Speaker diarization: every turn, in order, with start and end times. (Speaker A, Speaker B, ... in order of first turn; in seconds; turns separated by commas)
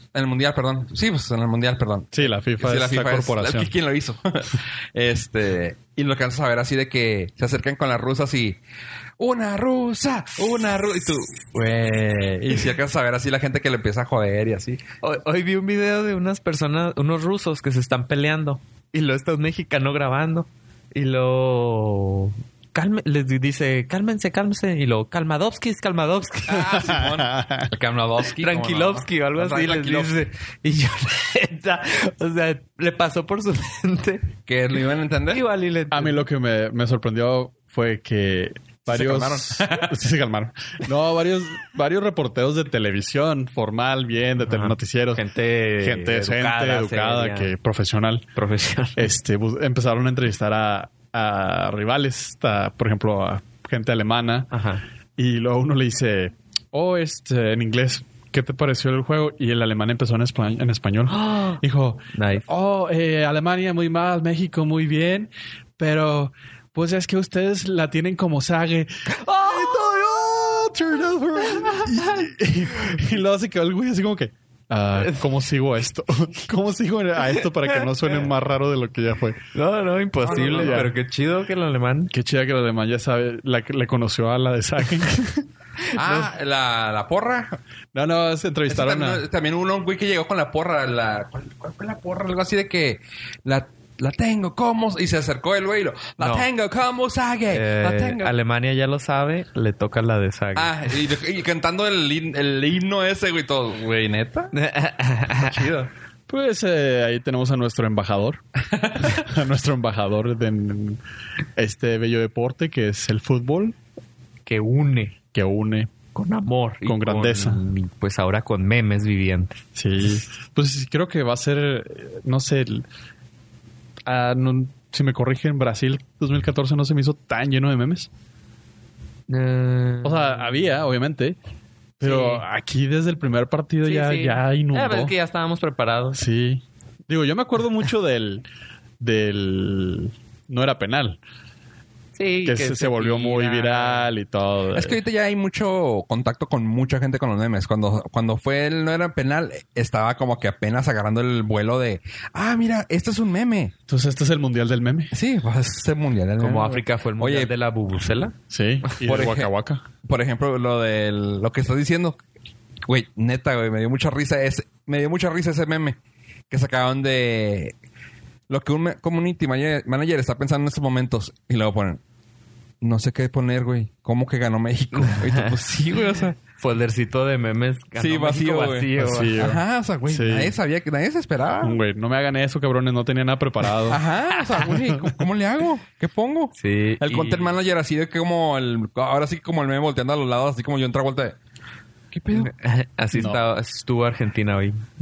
Speaker A: 0.1-8.6, Speaker B: 2.1-3.7, Speaker A: 9.2-14.8, Speaker C: 15.0-26.9, Speaker A: 26.5-30.2, Speaker B: 26.9-27.6, Speaker C: 28.4-34.3, Speaker A: 34.5-35.4, Speaker C: 35.3-36.2, Speaker B: 35.9-45.2, Speaker A: 38.9-40.0, Speaker C: 44.5-47.5, Speaker B: 45.8-48.2, Speaker C: 48.3-49.1, Speaker B: 49.0-54.5, Speaker C: 54.5-54.8, Speaker B: 55.2-79.4, Speaker C: 61.1-61.6, Speaker C: 62.1-62.5, Speaker C: 69.1-70.2, Speaker C: 71.4-72.0, Speaker C: 77.4-77.8, Speaker C: 79.5-82.1, Speaker A: 80.2-80.9, Speaker B: 80.3-80.9, Speaker B: 82.1-85.5, Speaker C: 85.8-86.2, Speaker A: 85.9-87.6, Speaker B: 87.9-89.2, Speaker A: 88.7-98.3, Speaker C: 96.2-96.5, Speaker C: 97.5-100.7, Speaker A: 100.5-104.5, Speaker C: 104.5-105.6, Speaker A: 105.4-105.9, Speaker B: 106.3-108.4, Speaker A: 108.7-109.2, Speaker B: 109.0-111.0, Speaker B: 111.5-113.7, Speaker C: 114.5-115.2, Speaker B: 115.3-115.9, Speaker C: 116.1-119.6, Speaker B: 116.8-117.6, Speaker B: 119.8-122.8, Speaker B: 124.0-128.1, Speaker C: 129.3-130.8, Speaker B: 130.0-131.3, Speaker B: 132.0-135.1, Speaker C: 132.0-132.4, Speaker C: 133.8-136.2, Speaker B: 136.1-138.4, Speaker B: 139.0-141.2, Speaker C: 142.2-144.1, Speaker B: 142.4-145.0, Speaker A: 144.7-153.7, Speaker B: 153.9-155.1, Speaker A: 155.1-157.5, Speaker C: 156.4-158.3, Speaker B: 158.5-159.8, Speaker A: 159.0-159.5, Speaker A: 160.0-162.2, Speaker A: 162.8-166.0, Speaker A: 166.5-167.7, Speaker A: 168.5-172.0, Speaker A: 172.8-176.4, Speaker C: 174.9-175.8, Speaker C: 176.4-179.3, Speaker A: 177.9-181.8, Speaker B: 179.0-180.5, Speaker B: 181.6-184.0, Speaker A: 183.9-191.4, Speaker B: 184.8-185.1, Speaker C: 186.5-187.5, Speaker A: 192.1-192.5, Speaker C: 192.3-194.8, Speaker B: 193.1-193.4